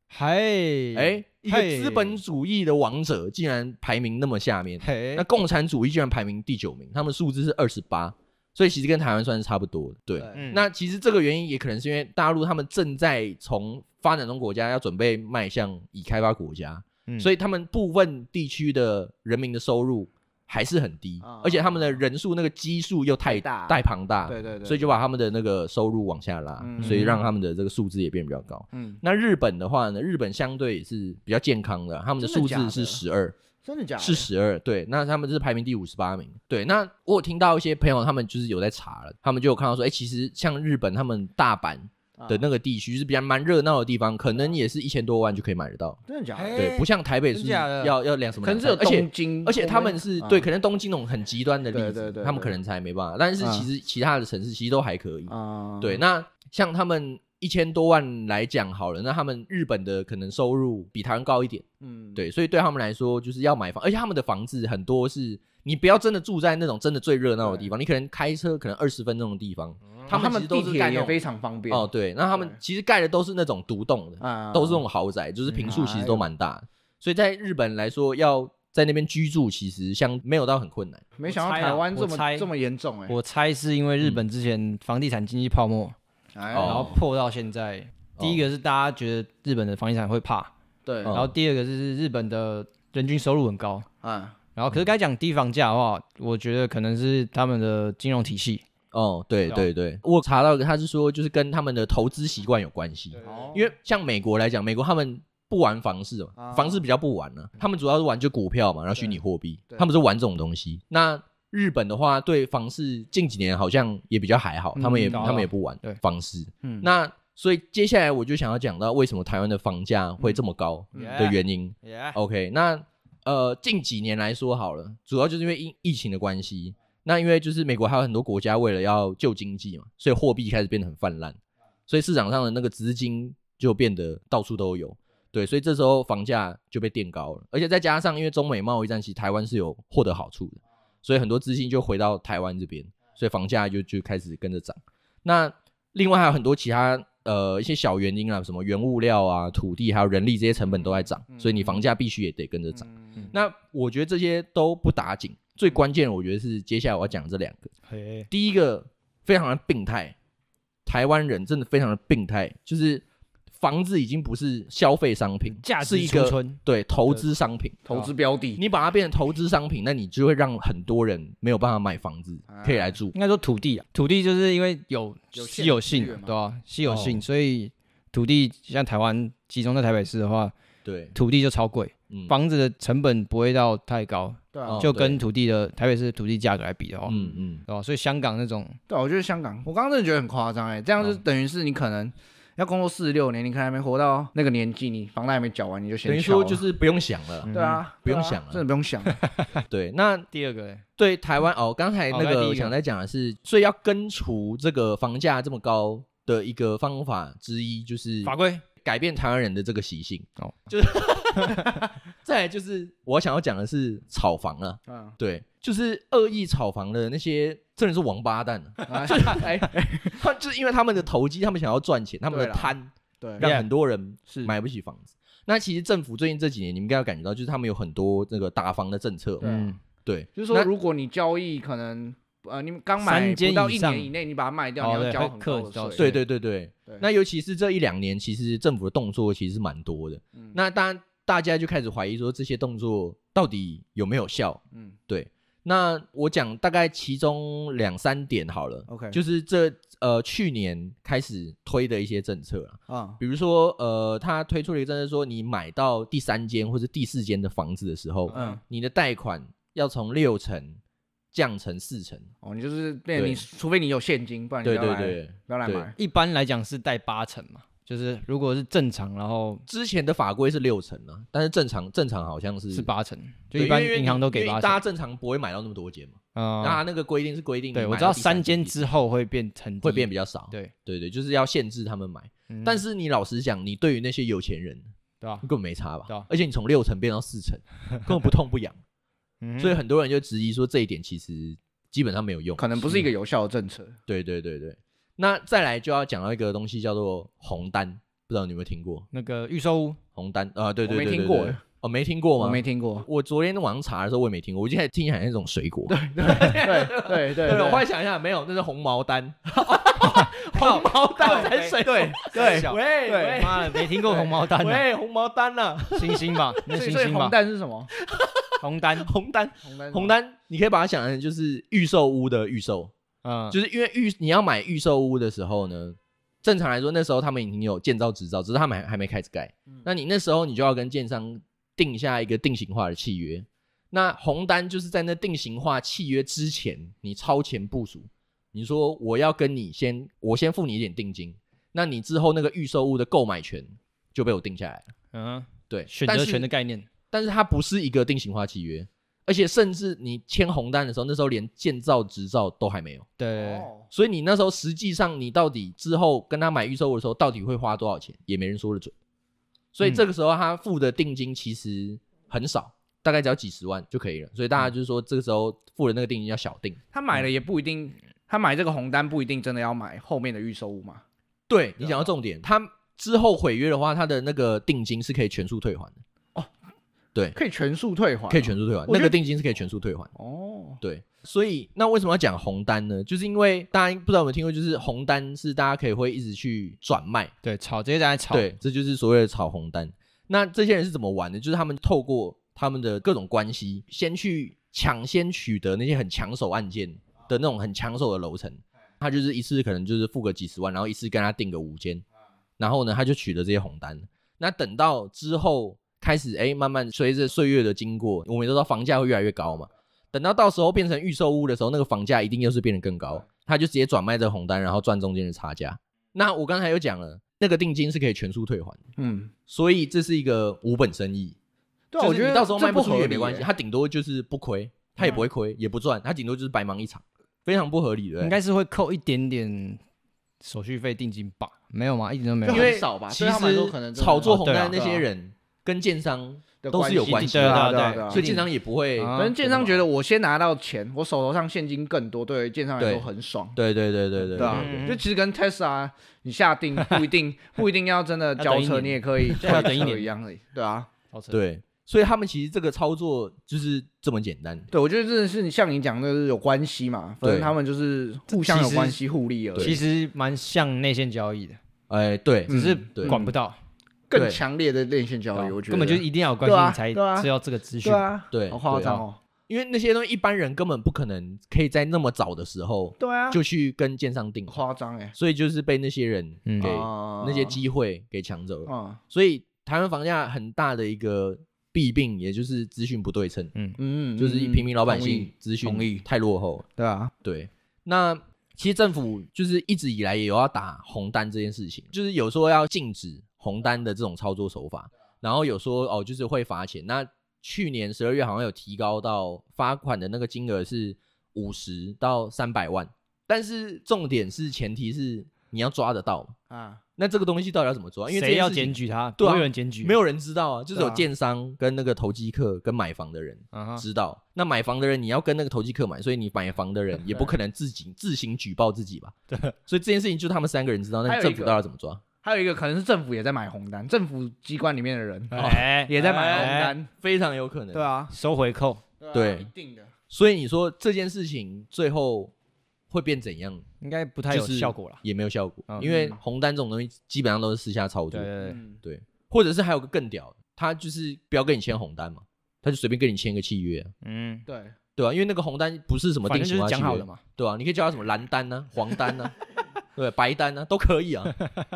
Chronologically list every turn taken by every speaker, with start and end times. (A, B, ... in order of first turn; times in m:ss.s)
0:00.1-0:02.2 A
0:00.9-0:33.3 B
0:04.8-0:05.2 A
0:10.2-0:10.4 C
0:10.3-0:10.6 A
0:21.2-0:22.0 C
0:23.2-0:24.9 C
0:26.6-0:27.2 C
0:26.8-0:27.2 A
0:28.7-0:29.0 C
0:32.2-0:33.0 C
0:33.6-0:34.3 C
0:34.0-0:46.0 B
0:42.2-0:42.4 C
0:46.1-0:46.7 C
0:46.3-0:47.9 A
0:46.5-1:11.2 B
0:48.4-0:50.4 C
0:51.7-0:52.5 C
0:53.4-0:53.7 C
0:55.3-0:56.0 C
1:01.8-1:02.2 C
1:07.4-1:07.7 C
1:10.1-1:12.6 C
1:11.7-1:21.0 B
1:14.2-1:14.8 C
1:15.6-1:16.2 C
1:21.2-1:23.2 C
1:21.3-1:22.5 A
1:23.1-1:26.0 A
1:26.4-1:27.0 C
1:26.5-1:27.0 B
1:26.6-1:30.5 A
1:28.2-1:28.4 B
1:30.8-1:31.1 C
1:31.0-1:31.3 B
1:31.1-1:33.8 A
1:34.0-1:34.4 C
1:34.5-1:38.6 A
1:38.9-2:11.4 B
1:43.2-1:43.5 A
1:43.2-1:43.7 C
1:46.4-1:46.8 C
1:54.8-1:55.4 C
1:55.1-1:56.0 A
1:56.6-1:56.9 C
2:00.9-2:01.2 C
2:00.9-2:02.2 A
2:11.9-2:37.7 B
2:30.7-2:31.8 C
2:32.8-2:33.2 C
2:37.9-2:38.3 A
2:38.3-2:40.1 B
2:40.8-2:47.8 B
2:45.5-2:47.2 A
2:47.8-2:48.6 C
2:48.6-2:53.1 B
2:52.5-2:52.9 C
2:53.1-3:00.5 A
2:55.3-2:56.3 C
2:56.8-2:57.2 B
3:00.8-3:01.2 B
3:01.1-3:07.1 A
3:04.5-3:04.8 C
3:04.7-3:05.2 B
3:07.1-3:07.6 B
3:07.7-3:08.8 A
3:08.9-3:16.6 C
3:16.0-3:17.5 B
3:17.4-3:17.8 A
3:17.5-3:19.2 C
3:18.0-3:18.6 B
3:19.1-3:19.6 A
3:19.7-3:20.3 B
3:20.3-3:20.8 A
3:21.0-3:49.4 B
3:22.1-3:22.7 A
3:28.2-3:28.6 A
3:31.4-3:31.7 A
3:34.9-3:35.2 C
3:38.9-3:40.3 C
3:42.3-3:43.5 C
3:43.4-3:43.6 A
3:44.3-3:44.5 C
3:49.4-3:49.7 C
3:49.4-3:49.8 A
3:50.0-3:50.7 B
3:50.4-3:56.1 C
3:53.0-3:54.1 A
3:54.8-3:56.2 A
3:56.0-4:20.8 B
4:08.9-4:09.2 C
4:12.9-4:13.2 C
4:18.3-4:18.6 A
4:18.3-4:18.6 C
4:21.3-4:22.3 B
4:22.4-4:25.9 C
4:23.1-4:23.4 B
4:24.6-4:25.9 B
4:26.0-4:29.6 A
4:29.7-4:32.9 B
4:32.7-4:34.8 A
4:33.5-4:38.8 B
4:36.3-4:36.8 A
4:37.7-4:40.7 A
4:39.8-4:44.9 B
4:42.5-4:42.8 A
4:45.2-4:45.4 A
4:45.4-4:48.8 B
4:49.4-4:49.8 A
4:49.6-4:53.1 B
4:52.6-4:54.0 C
4:54.1-4:59.1 B
4:59.1-5:00.0 A
5:00.1-5:16.6 B
5:00.8-5:01.6 C
5:02.4-5:03.1 C
5:05.9-5:07.8 C
5:09.5-5:13.4 C
5:10.0-5:14.8 A
5:15.9-5:17.3 A
5:16.7-5:17.9 C
5:17.9-5:22.9 B
5:18.6-5:19.1 A
5:19.6-5:20.1 C
5:23.2-5:23.6 A
5:23.5-5:44.9 B
5:45.1-5:46.9 A
5:45.7-5:46.4 B
5:47.1-5:53.1 B
5:53.2-5:53.7 A
5:53.3-5:53.9 C
5:53.9-5:58.9 B
5:59.7-6:06.8 B
6:06.9-6:11.0 C
6:11.5-6:16.0 B
6:17.3-6:19.2 C
6:18.3-6:20.1 B
6:20.1-6:20.8 C
6:20.8-6:27.3 B
6:27.4-6:28.5 A
6:28.3-6:42.0 B
6:42.6-6:58.8 B
6:59.0-6:59.3 C
6:59.5-7:01.4 B
7:01.9-7:03.5 C
7:02.0-7:08.4 B
7:08.2-7:09.8 A
7:10.4-7:12.7 A
7:12.4-7:15.0 C
7:12.5-7:19.8 B
7:14.2-7:14.8 A
7:16.6-7:18.3 C
7:17.0-7:18.4 A
7:19.0-7:19.4 A
7:19.2-7:23.6 C
7:22.8-7:24.8 B
7:24.4-7:30.9 C
7:24.4-7:25.0 A
7:28.4-7:30.1 A
7:31.1-7:31.4 A
7:31.3-7:34.7 B
7:34.7-7:39.8 C
7:37.2-7:37.5 B
7:38.3-7:39.0 A
7:39.6-7:41.6 A
7:41.9-7:43.2 B
7:42.5-7:43.3 C
7:42.5-7:43.6 A
7:44.1-7:47.3 C
7:44.1-7:44.4 B
7:45.3-7:48.1 A
7:47.8-7:49.2 C
7:48.3-7:54.6 B
7:48.8-7:49.0 A
7:53.0-7:53.4 C
7:54.5-7:55.2 C
7:55.2-8:03.5 B
7:56.4-7:56.7 A
7:56.6-7:57.6 C
7:58.7-7:59.0 C
8:03.8-8:06.0 C
8:04.2-8:06.6 B
8:06.8-8:07.1 C
8:07.2-8:26.3 B
8:26.5-8:26.8 C
8:27.0-8:39.1 B
8:28.1-8:30.0 A
8:30.7-8:31.0 C
8:33.5-8:33.8 A
8:39.3-8:39.5 A
8:39.6-8:42.0 B
8:41.0-8:41.6 C
8:42.2-8:46.9 C
8:45.3-8:46.7 A
8:45.3-8:47.8 B
8:47.7-8:48.1 C
8:48.1-8:48.8 A
8:49.0-8:49.9 C
8:49.1-8:49.5 B
8:50.1-8:52.3 B
8:52.9-8:53.6 B
8:53.8-8:55.0 A
8:54.3-8:58.3 B
8:55.7-8:56.1 A
8:55.8-8:56.2 C
8:58.1-8:58.6 A
8:58.4-8:58.8 C
8:58.8-9:03.9 B
9:04.0-9:04.4 A
9:04.5-9:04.8 C
9:05.0-9:09.3 B
9:06.2-9:07.2 A
9:10.0-9:11.4 B